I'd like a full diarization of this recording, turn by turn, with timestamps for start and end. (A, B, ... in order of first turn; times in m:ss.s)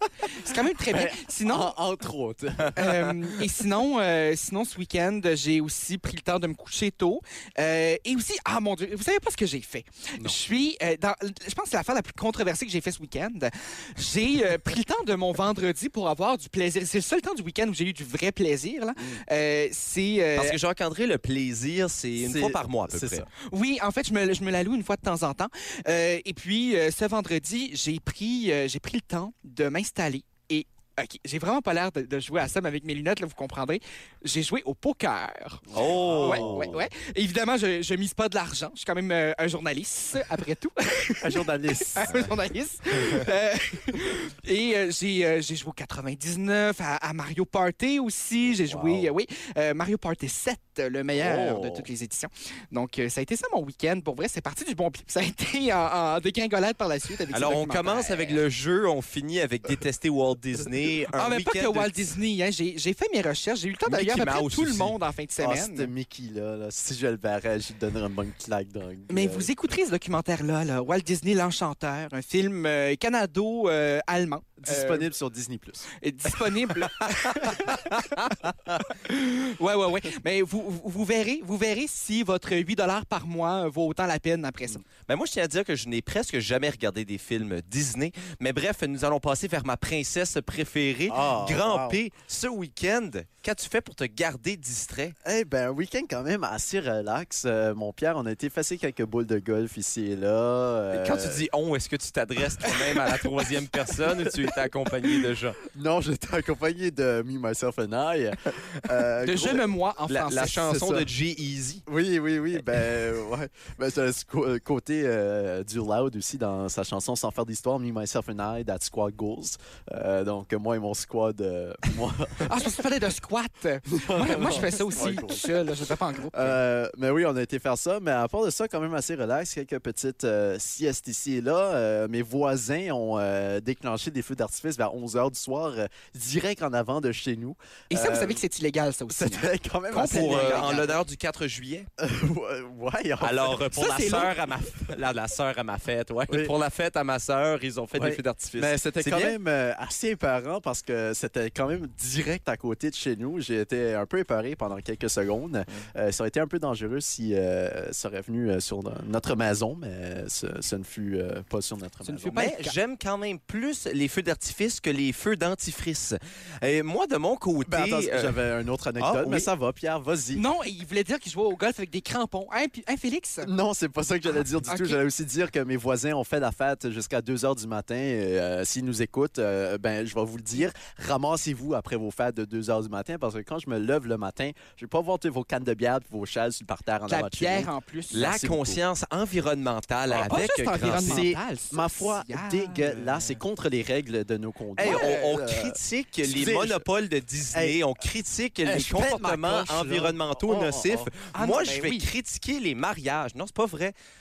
0:00.3-0:01.8 A
0:00.9-0:03.1 B
0:02.7-0:20.6 A
0:19.0-0:19.2 B
0:20.4-0:23.2 C
0:22.2-0:23.3 B
0:23.4-0:35.6 A
0:35.7-0:36.8 B
0:35.7-0:36.7 C
0:36.2-0:58.4 A
0:41.2-0:42.3 B
0:48.4-0:49.1 B
0:51.1-0:51.9 B
0:57.3-1:02.1 C
1:01.1-1:05.9 A
1:03.8-1:05.0 C
1:05.4-1:09.5 B
1:09.1-1:15.1 A
1:14.6-1:15.9 B
1:16.0-1:18.3 A
1:17.0-1:18.9 C
1:19.0-1:24.8 A
1:25.0-1:35.1 C
1:31.1-1:32.0 B
1:35.2-1:41.4 B
1:40.9-1:45.6 C
1:44.1-1:44.4 B
1:45.7-1:49.6 B
1:49.2-1:51.1 A
1:50.1-1:51.8 C
1:51.9-2:02.6 B
2:02.4-2:06.6 A
2:03.9-2:05.7 B
2:06.3-2:18.4 B
2:17.9-2:21.0 A
2:19.1-2:21.0 B
2:20.0-2:21.9 C
2:22.0-2:23.6 B
2:23.2-2:29.4 C
2:23.7-2:24.3 A
2:27.9-2:42.3 B
2:42.0-2:42.8 A
2:42.3-2:48.4 C
2:47.6-2:50.4 B
2:49.0-2:49.5 C
2:50.3-2:53.5 A
2:53.4-3:08.8 B
2:54.6-2:55.0 A
3:07.1-3:08.2 A
3:08.1-3:11.3 C
3:10.1-3:16.8 B
3:10.1-3:13.4 A
3:14.8-3:23.9 C
3:14.8-3:15.4 A
3:17.5-3:17.8 B
3:18.6-3:21.1 B
3:21.3-3:22.1 A